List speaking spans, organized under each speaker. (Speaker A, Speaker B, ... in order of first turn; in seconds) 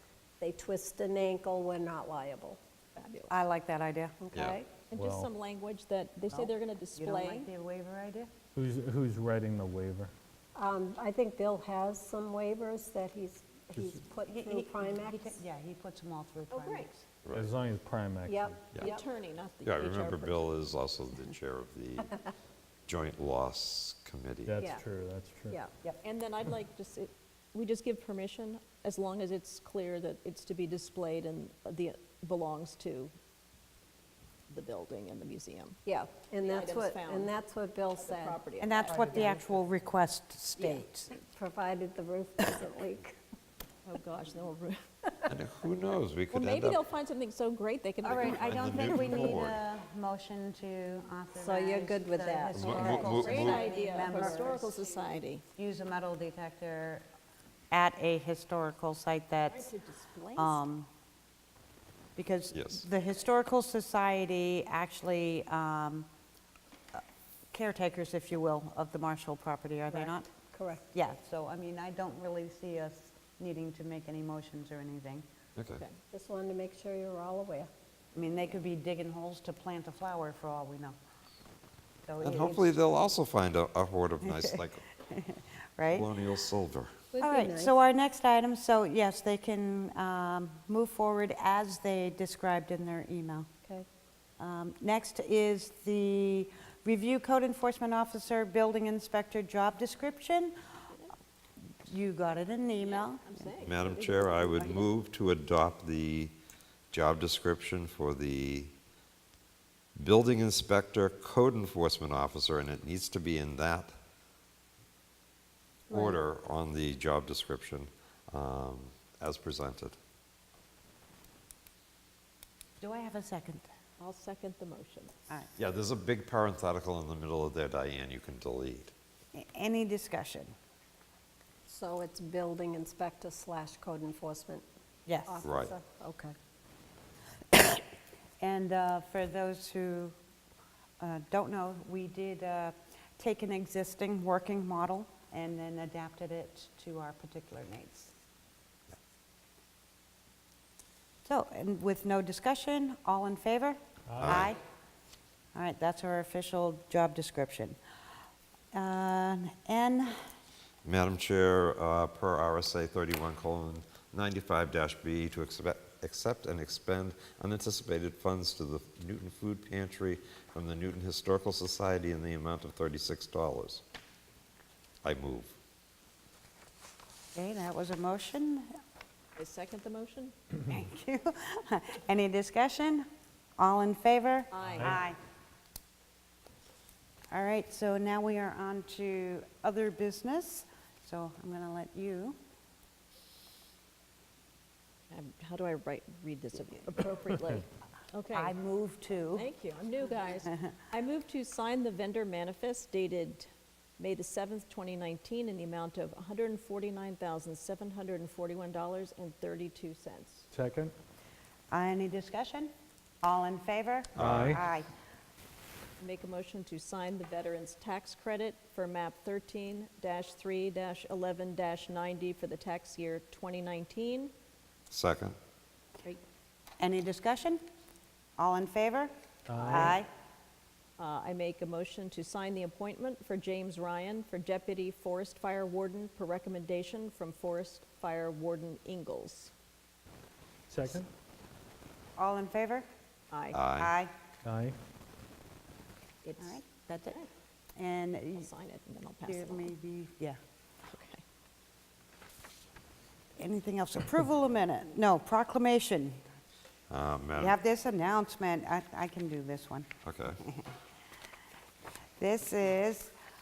Speaker A: 0.4-2.6, 4.2-4.7, 10.6-15.4, 18.3-19.0, 35.9-39.4, 41.3-43.2, 51.4-54.8, 69.9-70.9, 76.1-77.7, 87.1-87.7, 131.7-134.7, 135.3-136.3
Speaker B: 3.0-3.4, 4.9-7.5, 16.5-16.9, 18.8-20.6, 26.0-33.1, 34.5-35.8, 36.4-37.3, 38.0-39.2, 43.9-44.8, 46.3-49.3, 52.9-55.4, 59.5-60.6, 102.8-104.9, 115.9-116.2, 124.0-125.2, 179.4-180.3, 184.5-185.0, 195.1-198.6, 199.3-203.5, 204.0-210.5, 216.0-224.3, 231.0-239.5, 243.3-243.6, 246.2-247.3, 248.4-249.7, 250.9-251.2
Speaker C: 3.3-4.2, 6.3-8.3, 14.2-17.1, 38.6-41.1, 48.0-54.6, 55.6-57.0, 57.7-59.7, 60.4-60.9, 62.2-66.1, 66.9-70.3, 70.9-75.2, 78.1-81.0, 82.0-82.8, 84.2-86.1, 87.2-93.5, 94.4-100.5, 101.8-103.5, 122.8-123.7, 129.3-130.5, 135.1-135.4, 138.4-140.2, 141.0-148.1, 151.2-154.6, 155.5-157.8, 158.7-160.2, 177.3-178.7, 180.7-183.1, 183.6-185.2, 187.3-192.4, 198.3-199.5, 211.7-214.9, 226.8-227.6, 228.4-230.1, 242.2-242.9, 243.8-244.1, 246.4-247.2, 247.8-248.5, 249.2-250.4, 253.4-256.2, 257.4-259.9, 262.2-263.1
Speaker D: 4.9-5.3, 8.6-10.1, 13.8-14.0, 17.3-18.6, 24.5-25.6, 154.1-154.5, 210.5-210.9, 214.2-214.6, 229.5-230.0, 240.7-241.1, 244.4-244.8
Speaker E: 19.6-22.2, 22.9-24.5, 45.3-46.8, 48.0-49.6, 52.6-53.6, 62.5-62.9, 75.6-75.8, 82.2-84.8, 85.9-86.9, 103.6-106.3, 106.9-108.7, 110.0-114.0, 115.9-120.0, 125.6-128.9, 135.4-135.7, 154.2-154.5, 160.8-173.8, 175.0-175.6, 214.2-214.6, 224.9-225.4, 243.5-243.9, 256.9-257.6, 260.1-260.4